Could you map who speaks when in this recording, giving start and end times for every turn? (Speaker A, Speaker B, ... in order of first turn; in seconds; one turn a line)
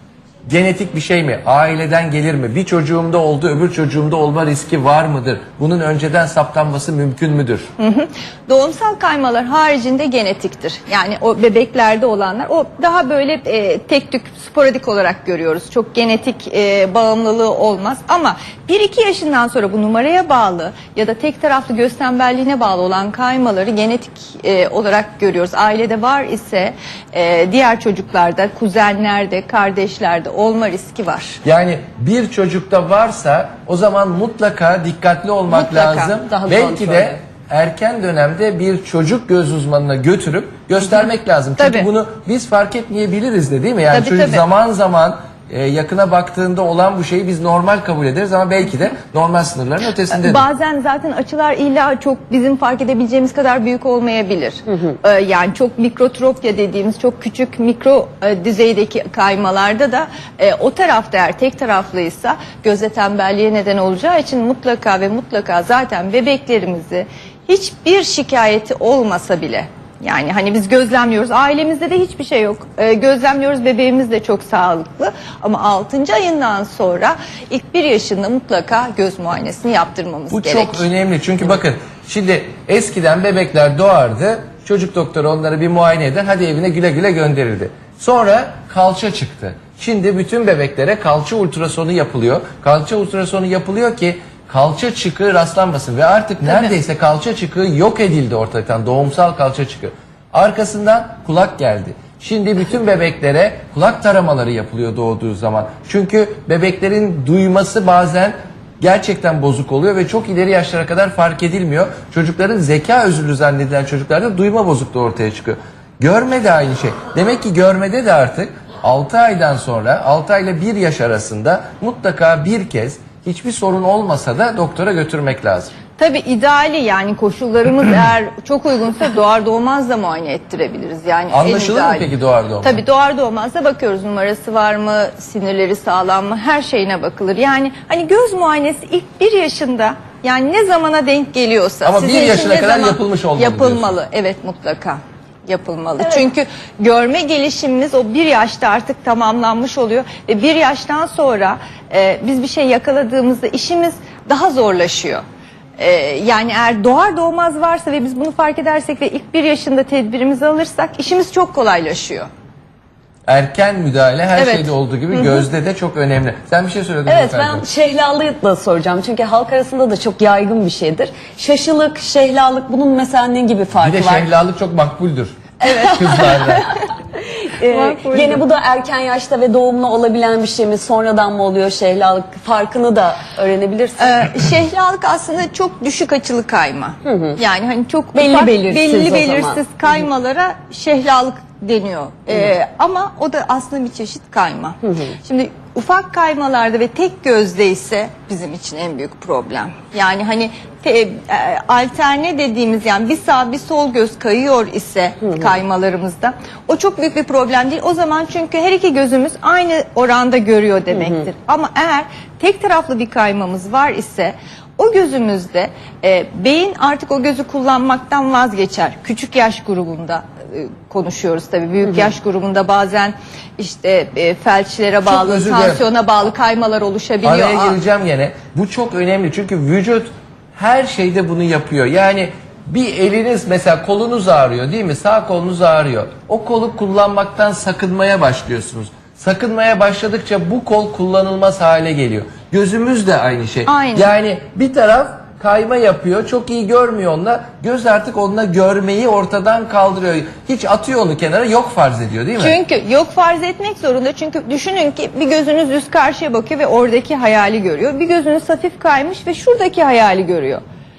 Speaker A: 0.5-7.7
Speaker B: 7.8-31.4
Speaker A: 31.4-50.5
Speaker B: 35.5-36.2
Speaker C: 36.2-37.2
Speaker B: 41.6-41.9
Speaker B: 43.9-44.4
Speaker B: 50.1-80.8
Speaker A: 80.3-125.7
Speaker B: 126.0-155.2
Speaker A: 131.3-132.8
Speaker A: 141.8-143.9
Speaker B: 155.8-162.3
Speaker A: 163.2-167.6
Speaker B: 164.3-165.4
Speaker C: 167.1-174.2
Speaker A: 173.8-176.7
Speaker B: 175.7-176.1
Speaker C: 175.7-176.6
Speaker C: 177.2-184.2
Speaker B: 177.7-178.4
Speaker B: 184.0-227.8
Speaker C: 187.0-187.4
Speaker C: 188.1-189.6
Speaker C: 194.8-195.1
Speaker A: 225.1-225.8
Speaker A: 227.2-252.6
Speaker B: 243.7-244.1
Speaker B: 252.4-260.6